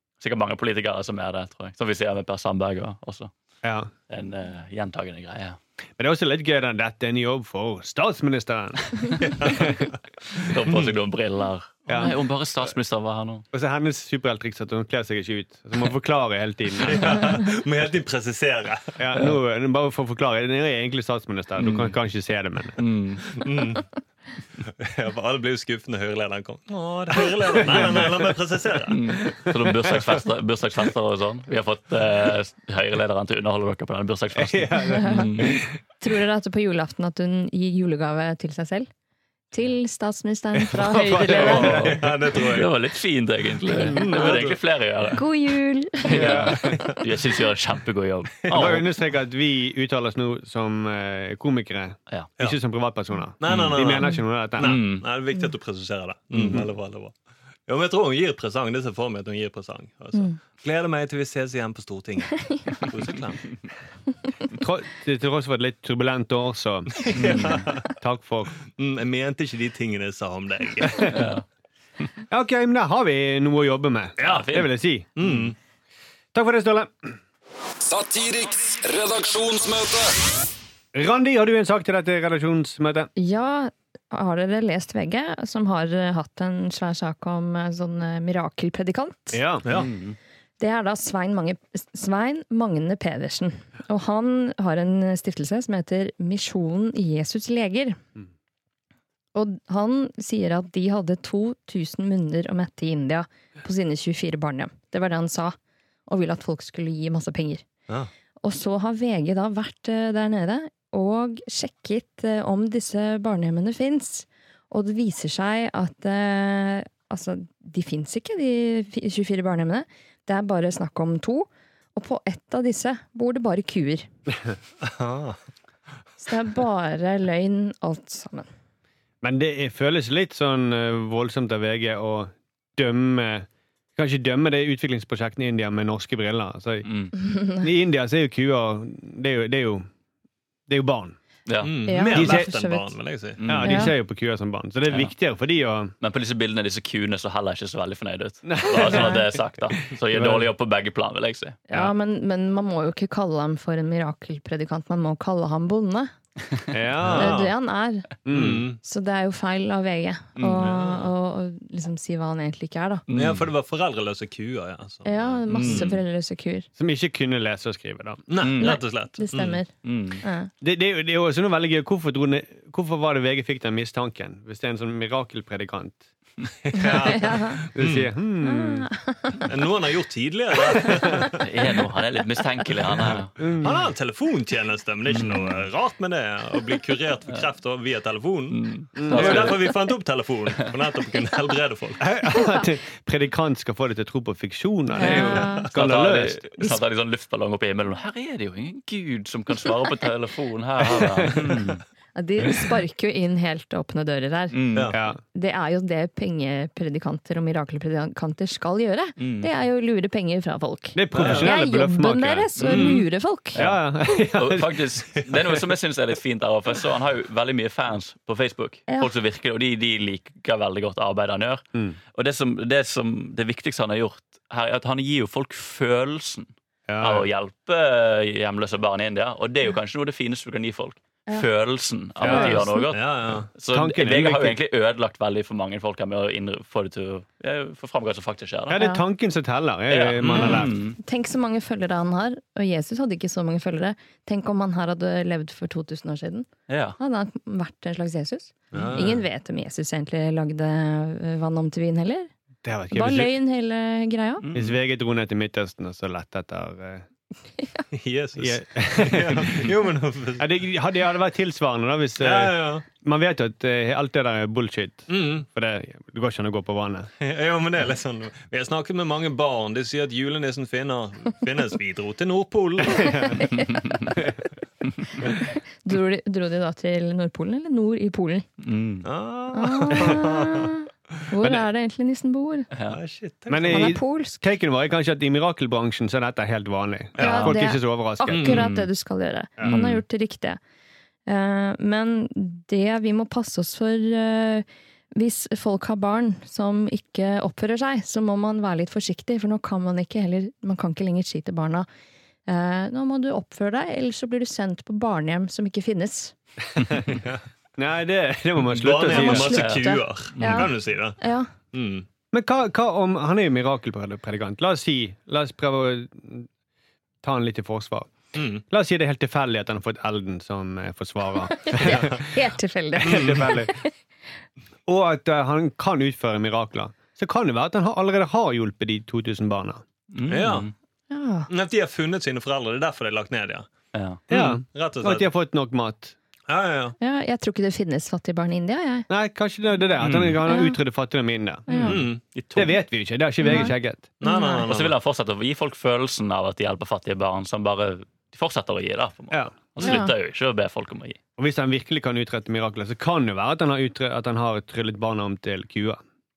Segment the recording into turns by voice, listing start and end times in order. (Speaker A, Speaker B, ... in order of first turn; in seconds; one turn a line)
Speaker A: 0.2-3.3
Speaker B: 3.6-3.9
Speaker A: 4.1-5.6
Speaker B: 6.0-9.7
Speaker C: 9.2-9.9
Speaker A: 10.3-13.4
Speaker B: 11.9-12.2
Speaker B: 13.5-17.4
Speaker C: 16.8-18.9
Speaker B: 19.0-22.8
Speaker A: 21.6-21.9
Speaker A: 22.8-23.3
Speaker C: 23.4-23.8
Speaker C: 24.6-29.0
Speaker B: 27.5-28.1
Speaker A: 28.9-35.6
Speaker B: 29.6-30.0
Speaker B: 34.3-35.7
Speaker D: 34.9-38.9
Speaker D: 39.5-41.8
Speaker B: 40.5-42.1
Speaker A: 41.3-45.2
Speaker C: 41.3-42.7
Speaker B: 43.8-44.2
Speaker C: 43.8-44.6
Speaker D: 45.1-46.7
Speaker A: 46.0-48.9
Speaker C: 46.1-46.9
Speaker B: 46.1-46.8
Speaker C: 48.5-48.7
Speaker B: 48.5-54.8
Speaker C: 53.4-57.1
Speaker A: 53.5-53.8
Speaker A: 54.6-55.0
Speaker B: 56.3-56.7
Speaker C: 57.7-63.5
Speaker B: 64.5-68.5
Speaker C: 67.0-67.8
Speaker A: 67.1-67.7
Speaker C: 68.8-71.1
Speaker B: 70.8-71.1
Speaker A: 71.0-71.4
Speaker B: 72.3-75.2
Speaker A: 74.2-74.7
Speaker C: 74.2-74.5
Speaker C: 75.2-75.5
Speaker B: 76.3-77.1
Speaker E: 77.8-80.2
Speaker B: 80.9-83.1
Speaker D: 83.2-89.4
Speaker B: 89.3-89.6
Speaker A: 89.7-90.2
Speaker D: 90.6-98.0
Speaker D: 99.3-105.5
Speaker D: 106.1-107.6
Speaker D: 108.4-124.1
Speaker C: 124.8-125.4
Speaker D: 126.2-128.5
Speaker B: 129.2-136.9
Speaker A: 136.8-137.1
Speaker D: 137.2-137.7
Speaker B: 137.5-139.8
Speaker B: 140.7-141.2
Speaker A: 141.4-141.7
Speaker C: 141.6-143.4
Speaker D: 141.8-142.9
Speaker B: 142.1-142.5
Speaker A: 143.4-143.9
Speaker B: 143.4-145.9
Speaker D: 143.6-143.9
Speaker A: 146.0-151.6
Speaker B: 148.4-149.3
Speaker B: 149.9-150.5
Speaker D: 151.7-156.1
Speaker B: 156.7-157.4
Speaker C: 157.0-157.5
Speaker D: 157.2-158.1
Speaker B: 158.2-158.6
Speaker C: 158.3-158.8
Speaker D: 158.8-163.0
Speaker A: 160.3-160.7
Speaker C: 160.6-161.1
Speaker A: 163.1-163.5
Speaker C: 163.1-166.0
Speaker D: 165.0-166.7
Speaker A: 165.5-165.9
Speaker B: 166.8-168.2
Speaker C: 168.3-169.6
Speaker A: 168.4-168.8
Speaker D: 168.6-169.7
Speaker A: 169.8-170.2
Speaker D: 170.2-170.5
Speaker B: 170.6-176.0
Speaker C: 176.6-178.1
Speaker D: 176.7-177.6
Speaker B: 177.7-178.9
Speaker D: 178.4-179.4
Speaker C: 179.4-181.4
Speaker A: 181.4-183.3
Speaker B: 183.4-183.9
Speaker C: 183.6-192.1
Speaker A: 185.1-185.4
Speaker A: 188.5-189.7
Speaker B: 188.9-189.6
Speaker B: 192.0-196.4
Speaker D: 194.9-195.7
Speaker A: 195.0-201.8
Speaker C: 195.1-195.5
Speaker D: 202.1-204.6
Speaker A: 204.5-204.9
Speaker B: 204.9-205.2
Speaker D: 205.3-213.6
Speaker A: 209.2-209.5
Speaker B: 210.9-212.9
Speaker C: 211.1-211.5
Speaker A: 212.6-213.0
Speaker C: 212.6-213.0
Speaker A: 213.5-238.8
Speaker B: 213.6-214.8
Speaker D: 218.9-219.1
Speaker B: 226.9-227.2
Speaker B: 232.2-232.8
Speaker D: 232.2-232.9
Speaker C: 232.9-233.5
Speaker B: 233.7-234.6
Speaker B: 238.7-240.8
Speaker D: 238.7-239.0
Speaker A: 239.9-241.0
Speaker C: 240.2-240.7
Speaker D: 241.0-246.5
Speaker A: 246.7-247.0
Speaker D: 247.0-252.3
Speaker C: 248.7-249.2
Speaker B: 252.6-253.3
Speaker D: 252.9-254.4
Speaker A: 254.4-254.8
Speaker B: 254.5-257.1
Speaker D: 257.6-257.8
Speaker C: 257.9-260.5
Speaker B: 258.4-259.7
Speaker B: 260.4-267.1
Speaker C: 262.2-262.8
Speaker C: 265.1-265.4
Speaker C: 267.2-273.4
Speaker B: 272.9-273.4
Speaker D: 272.9-274.2
Speaker A: 273.7-274.1
Speaker D: 275.2-278.4
Speaker A: 278.6-279.1
Speaker C: 279.0-280.7
Speaker D: 279.5-282.7
Speaker B: 281.4-281.6
Speaker A: 282.7-283.0
Speaker C: 282.9-283.9
Speaker B: 283.5-288.6
Speaker D: 283.7-284.4
Speaker C: 287.2-287.5
Speaker D: 287.2-290.6
Speaker C: 288.3-288.7
Speaker A: 288.5-288.9
Speaker A: 289.6-290.0
Speaker D: 291.3-301.9
Speaker D: 302.5-306.3
Speaker C: 307.1-307.4
Speaker B: 307.8-309.6
Speaker C: 308.7-311.2
Speaker D: 309.1-311.5
Speaker A: 309.5-310.7
Speaker C: 311.7-312.1
Speaker B: 312.3-316.5
Speaker B: 317.2-318.1
Speaker C: 318.3-318.6
Speaker B: 318.7-322.4
Speaker D: 321.7-323.9
Speaker C: 321.8-322.2
Speaker B: 322.9-323.8
Speaker C: 323.0-323.5
Speaker B: 324.9-329.8
Speaker A: 330.1-330.7
Speaker C: 330.3-330.7
Speaker D: 331.1-331.5
Speaker C: 331.5-333.7
Speaker A: 333.9-334.2
Speaker C: 334.3-335.3
Speaker B: 334.3-336.1
Speaker C: 336.5-336.9
Speaker D: 337.0-339.1
Speaker B: 339.1-344.1
Speaker A: 340.0-340.4
Speaker D: 340.5-340.8
Speaker D: 341.7-342.0
Speaker A: 341.7-342.8
Speaker C: 341.8-342.2
Speaker D: 343.4-344.7
Speaker C: 344.2-344.9
Speaker A: 344.6-351.2
Speaker D: 349.8-350.1
Speaker B: 351.4-356.0